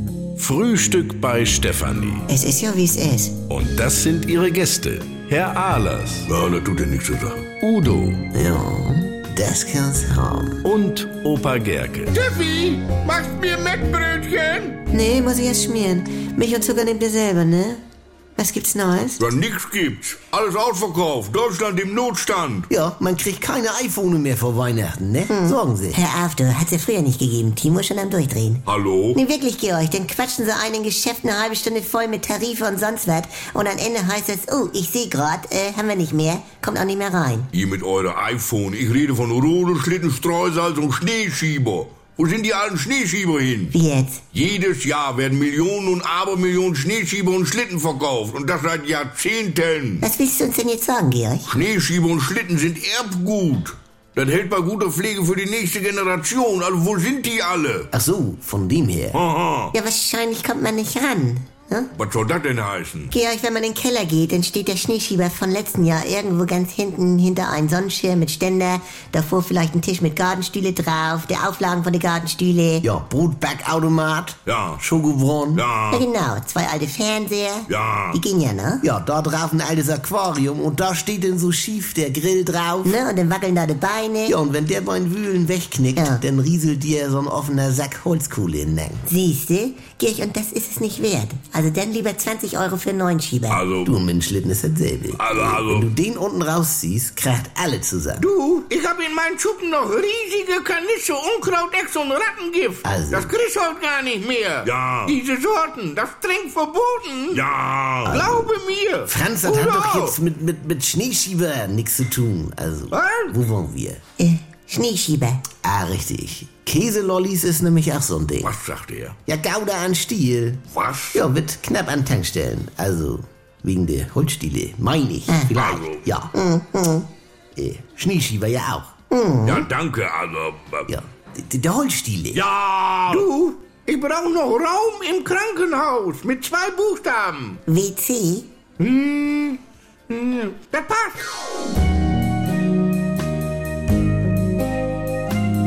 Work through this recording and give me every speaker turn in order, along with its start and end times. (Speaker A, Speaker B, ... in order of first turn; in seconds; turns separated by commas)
Speaker A: 0.4-2.2, Speaker B: 2.3-3.4, Speaker A: 3.5-6.2, Speaker C: 6.3-7.5, Speaker A: 7.6-8.2, Speaker D: 8.3-10.6, Speaker A: 10.7-12.1, Speaker E: 12.2-14.8, Speaker C: 13.4-14.4, Speaker B: 14.9-17.8, Speaker B: 18.4-19.3, Speaker C: 19.2-22.7, Speaker D: 22.7-26.0, Speaker B: 25.3-37.5, Speaker C: 28.7-29.2, Speaker C: 37.5-43.7, Speaker B: 43.7-44.2, Speaker C: 44.3-50.0, Speaker B: 50.0-51.5, Speaker C: 51.5-57.9, Speaker D: 57.9-59.2, Speaker C: 59.1-59.7, Speaker B: 59.7-61.9, Speaker C: 62.0-63.1, Speaker B: 63.1-72.8, Speaker D: 72.8-75.7, Speaker C: 74.5-74.8, Speaker C: 75.5-76.1, Speaker B: 75.9-78.8, Speaker C: 77.7-78.2, Speaker D: 78.8-83.0, Speaker B: 82.8-84.3, Speaker D: 84.3-89.0, Speaker B: 89.1-93.6, Speaker C: 93.5-94.0, Speaker D: 93.8-98.2, Speaker C: 95.2-95.9, Speaker E: 98.2-107.4, Speaker D: 102.8-103.4, Speaker C: 104.6-105.2, Speaker C: 107.3-108.3, Speaker D: 108.1-108.5, Speaker E: 108.2-110.2, Speaker D: 109.1-114.0, Speaker E: 112.9-113.3, Speaker B: 114.2-115.4, Speaker D: 115.6-118.5, Speaker C: 118.4-119.2, Speaker D: 119.3-120.6, Speaker C: 120.7-121.2, Speaker D: 121.1-126.3, Speaker C: 125.5-126.0, Speaker B: 126.3-127.1, Speaker D: 127.6-128.9, Speaker B: 129.1-129.7, Speaker C: 129.4-130.9, Speaker D: 130.9-132.4, Speaker C: 132.3-133.3, Speaker E: 133.2-137.6, Speaker B: 137.7-138.5, Speaker E: 138.8-139.6, Speaker E: 140.1-141.2